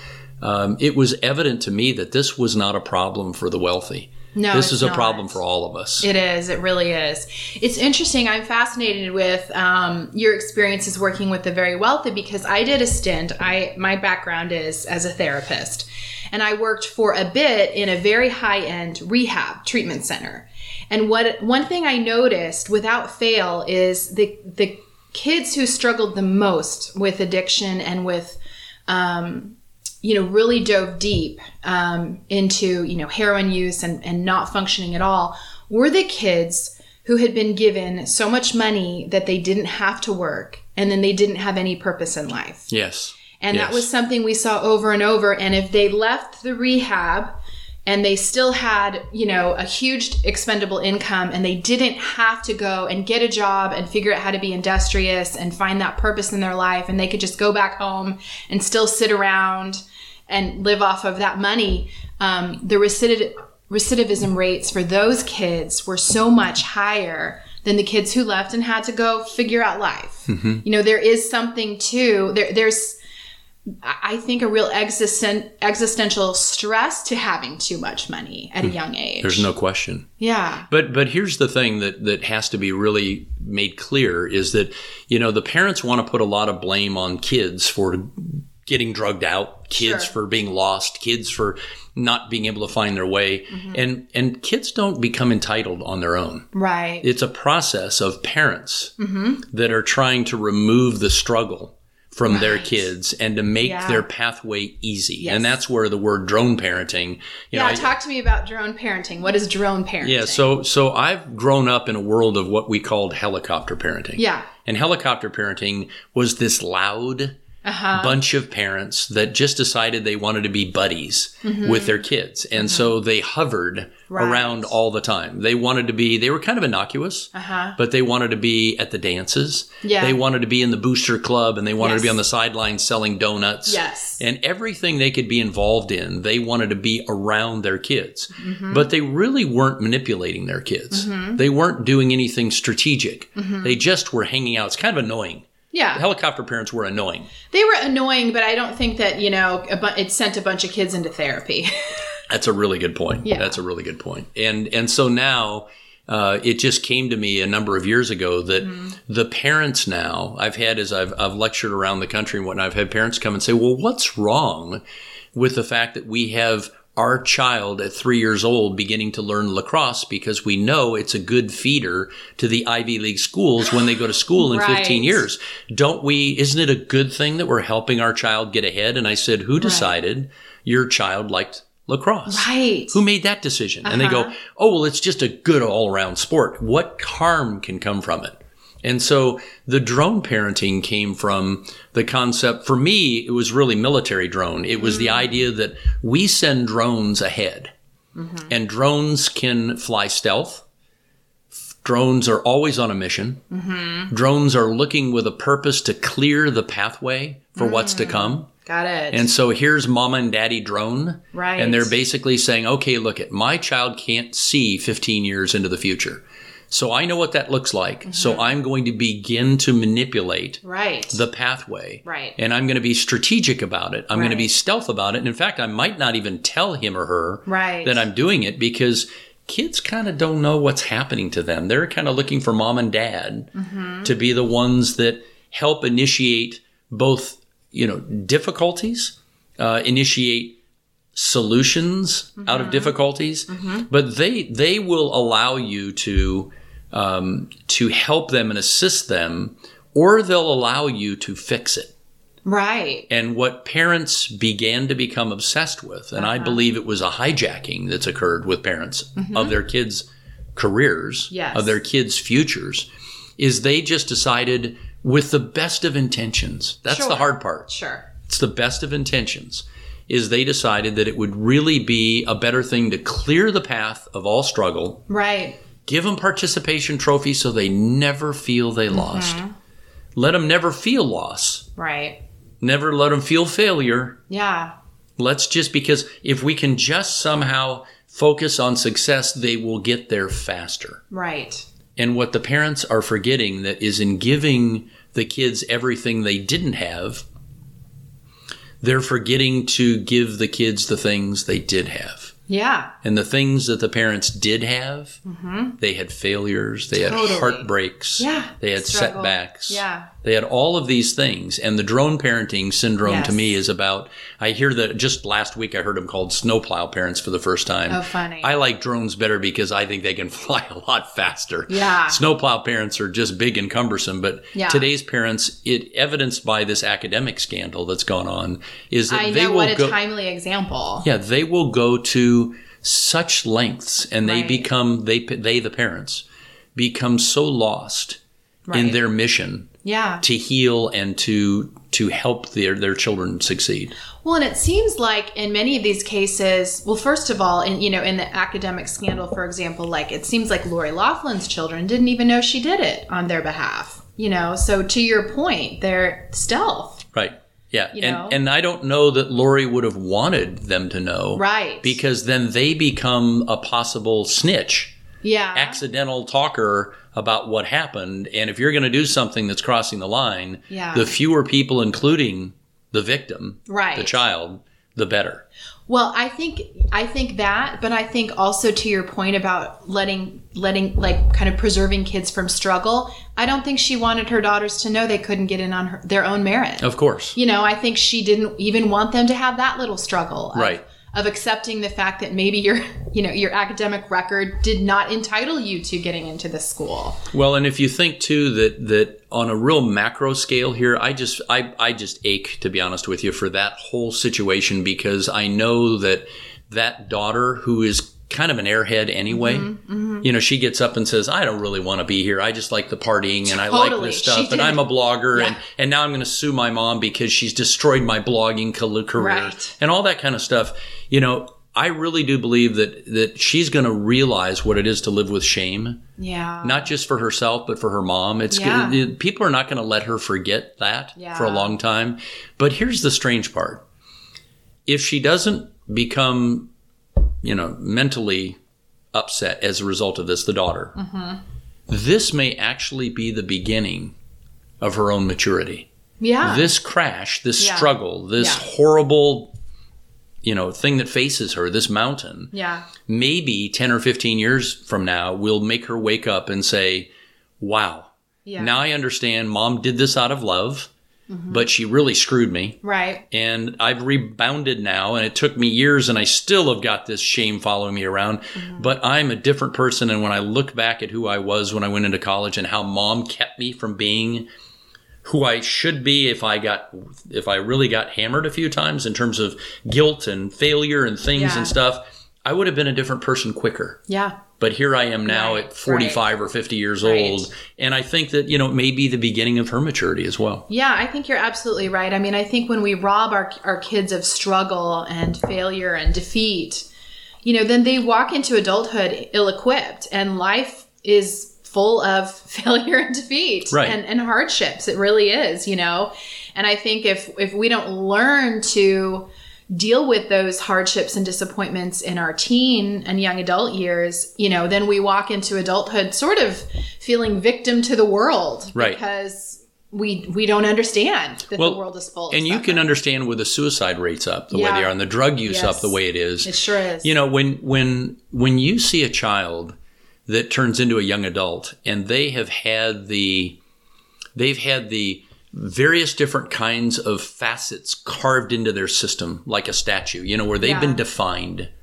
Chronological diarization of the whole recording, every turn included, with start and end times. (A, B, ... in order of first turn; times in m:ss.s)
0:00.4-0:06.1 A
0:04.3-0:05.4 B
0:06.0-0:42.7 B
0:42.7-0:43.9 A
0:43.4-1:13.0 B
1:10.3-1:10.6 A
1:13.8-1:19.5 B
1:18.6-1:20.1 A
1:20.2-1:20.7 B
1:20.7-1:36.5 A
1:29.8-1:30.1 B
1:33.5-1:33.8 B
1:36.5-1:37.1 B
1:37.0-1:39.0 A
1:39.0-1:39.4 B
1:39.5-1:47.9 A
1:42.3-1:42.8 B
1:43.6-1:44.0 B
1:45.2-1:45.6 B
1:47.5-1:50.4 B
1:50.0-1:57.4 A
1:54.2-1:54.5 B
1:57.6-1:58.2 B
1:57.9-2:27.3 A
2:01.4-2:02.0 B
2:02.6-2:02.9 B
2:04.1-2:04.7 B
2:07.3-2:07.8 B
2:09.8-2:10.2 B
2:11.8-2:12.2 B
2:13.7-2:14.2 B
2:18.4-2:18.9 B
2:20.9-2:21.4 B
2:23.4-2:23.8 B
2:25.7-2:26.0 B
2:27.5-2:32.0 B
2:32.3-2:44.8 A
2:33.2-2:33.6 B
2:38.6-2:39.0 B
2:45.3-3:17.7 A
2:54.4-2:55.3 B
2:59.6-2:59.9 B
3:02.3-3:03.0 B
3:03.8-3:04.3 B
3:14.8-3:15.3 B
3:18.2-3:18.5 B
3:18.5-3:20.6 A
3:21.5-3:23.4 A
3:23.5-3:24.1 B
3:24.1-3:28.5 A
3:27.6-3:29.3 B
3:29.1-3:53.5 A
3:31.3-3:32.0 B
3:38.1-3:38.5 B
3:40.6-3:41.2 B
3:42.0-3:42.4 B
3:44.1-3:44.5 B
3:47.5-3:48.0 B
3:53.6-3:54.1 B
3:54.0-4:00.6 A
4:01.2-4:11.9 A
4:02.4-4:02.9 B
4:03.5-4:03.9 B
4:12.4-4:13.1 B
4:13.1-4:35.0 A
4:16.2-4:16.6 B
4:19.2-4:19.6 B
4:21.3-4:21.8 B
4:26.9-4:28.1 B
4:35.1-4:35.6 B
4:35.8-4:39.4 A
4:38.9-4:39.5 B
4:40.2-4:41.7 A
4:41.8-4:42.2 B
4:42.6-4:44.2 A
4:44.3-4:44.8 B
4:45.2-4:51.0 A
4:51.1-4:51.6 B
4:52.0-4:57.2 A
4:58.8-5:02.3 A
5:02.5-5:02.9 B
5:03.0-5:05.2 A
5:05.2-5:05.8 B
5:05.8-5:30.0 A
5:07.0-5:10.1 B
5:13.0-5:13.6 B
5:17.9-5:18.5 B
5:21.7-5:22.2 B
5:24.5-5:24.9 B
5:29.1-5:31.1 B
5:31.0-5:38.2 A
5:34.2-5:34.7 B
5:38.7-5:39.0 B
5:38.7-5:44.0 A
5:39.8-5:40.2 B
5:44.2-5:57.0 B
5:57.1-6:05.0 A
5:57.9-5:58.4 B
6:01.4-6:02.0 B
6:05.2-6:05.8 B
6:05.5-6:15.4 A
6:10.7-6:11.1 B
6:13.7-6:14.2 B
6:15.9-6:37.3 B
6:26.8-6:27.4 A
6:30.5-6:30.8 A
6:37.3-7:06.0 A
6:49.3-6:50.3 B
6:53.5-6:55.6 B
6:59.2-6:59.8 B
7:06.2-7:06.9 B
7:06.6-7:13.8 A
7:08.5-7:09.0 B
7:11.2-7:11.8 B
7:14.9-7:16.7 A
7:17.4-7:18.6 A
7:19.1-7:21.0 A
7:21.0-7:21.4 B
7:21.9-7:24.1 A
7:24.8-7:25.9 A
7:26.2-7:26.7 B
7:26.4-7:29.5 A
7:27.6-7:28.6 B
7:30.4-7:37.1 A
7:32.5-7:32.9 B
7:37.6-7:40.9 A
7:38.4-7:38.8 B
7:41.3-7:41.7 B
7:41.5-7:54.5 A
7:42.8-7:43.2 B
7:48.6-7:48.9 B
7:55.2-8:04.0 A
8:01.3-8:01.8 B
8:04.1-8:04.4 B
8:04.6-8:10.7 A
8:05.3-8:06.2 B
8:07.0-8:07.5 B
8:10.7-8:16.9 B
8:17.4-8:42.9 B
8:23.7-8:24.0 A
8:41.6-8:46.5 A
8:44.5-8:44.9 B
8:45.4-8:47.1 B
8:47.0-8:49.8 A
8:50.3-8:53.6 A
8:54.4-9:01.7 A
9:00.6-9:01.0 B